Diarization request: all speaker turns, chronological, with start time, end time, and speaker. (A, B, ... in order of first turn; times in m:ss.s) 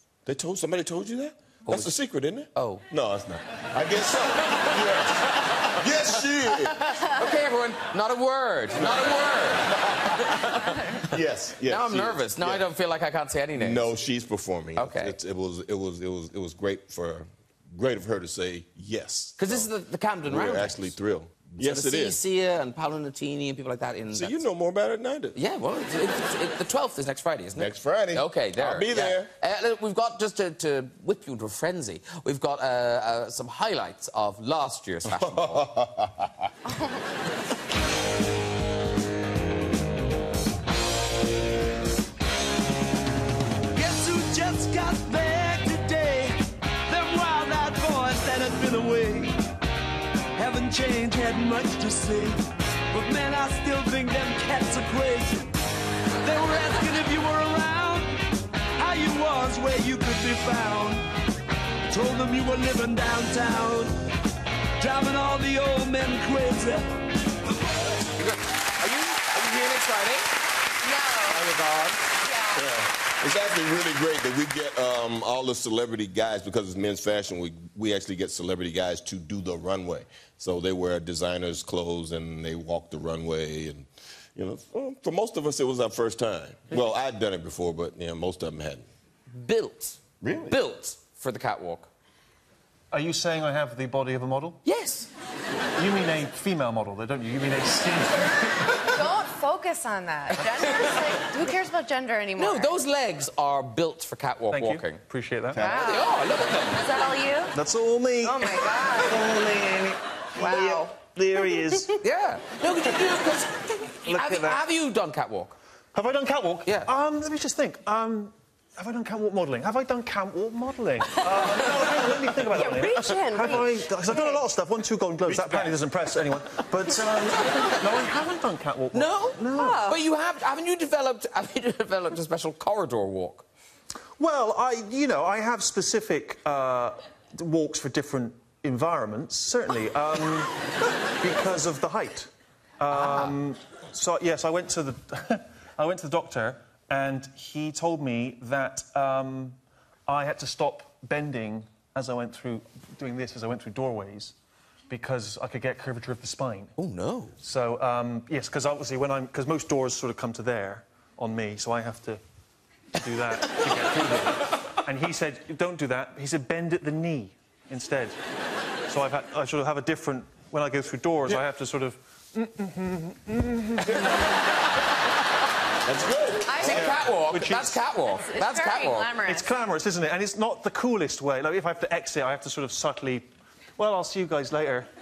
0:00.3-0:06.8 A
0:01.7-0:02.0 B
0:02.6-0:02.8 B
0:06.7-0:09.7 B
0:08.8-0:10.2 A
0:10.2-0:10.8 B
0:11.1-0:12.7 A
0:11.7-0:13.9 B
0:13.6-0:19.7 A
0:14.8-0:15.2 B
0:19.4-0:20.9 B
0:20.3-0:22.2 A
0:21.6-0:24.4 B
0:24.1-0:25.4 A
0:25.4-0:35.6 B
0:27.6-0:29.3 A
0:35.2-0:36.3 A
0:36.7-0:37.0 C
0:43.7-0:49.4 D
0:50.4-0:55.5 D
0:56.2-0:58.2 D
0:58.8-1:01.0 D
1:01.9-1:03.9 D
1:04.8-1:07.0 D
1:08.1-1:10.3 B
1:10.8-1:11.4 C
1:11.3-1:12.0 B
1:12.2-1:12.7 C
1:12.6-1:28.9 A
1:29.4-1:31.9 B
1:30.2-1:30.6 A
1:32.9-1:34.6 E
1:34.6-1:35.1 B
1:35.8-1:38.8 E
1:38.9-1:42.8 C
1:42.4-1:45.0 B
1:44.5-1:45.6 E
1:45.6-1:45.9 A
1:45.6-1:46.1 C
1:45.6-1:46.8 B
1:46.8-1:47.6 C
1:47.5-1:51.9 E
1:48.2-1:49.2 C
1:50.4-1:52.0 C
1:52.0-1:55.6 B
1:54.0-1:54.6 E
1:55.9-2:09.9 E
2:02.5-2:04.4 C
2:08.9-2:13.4 B
2:09.5-2:10.0 C
2:14.2-2:20.5 E
2:21.2-2:34.4 E
2:22.9-2:23.3 B
2:34.9-2:36.7 E
2:36.8-2:37.4 B
2:37.4-2:42.2 E
2:43.0-2:48.2 E
2:48.9-2:54.1 E
2:55.9-2:56.5 A
2:56.5-2:56.9 C
2:56.6-2:59.1 B
2:56.6-2:57.8 E
2:58.1-2:59.5 C
2:59.3-3:04.9 E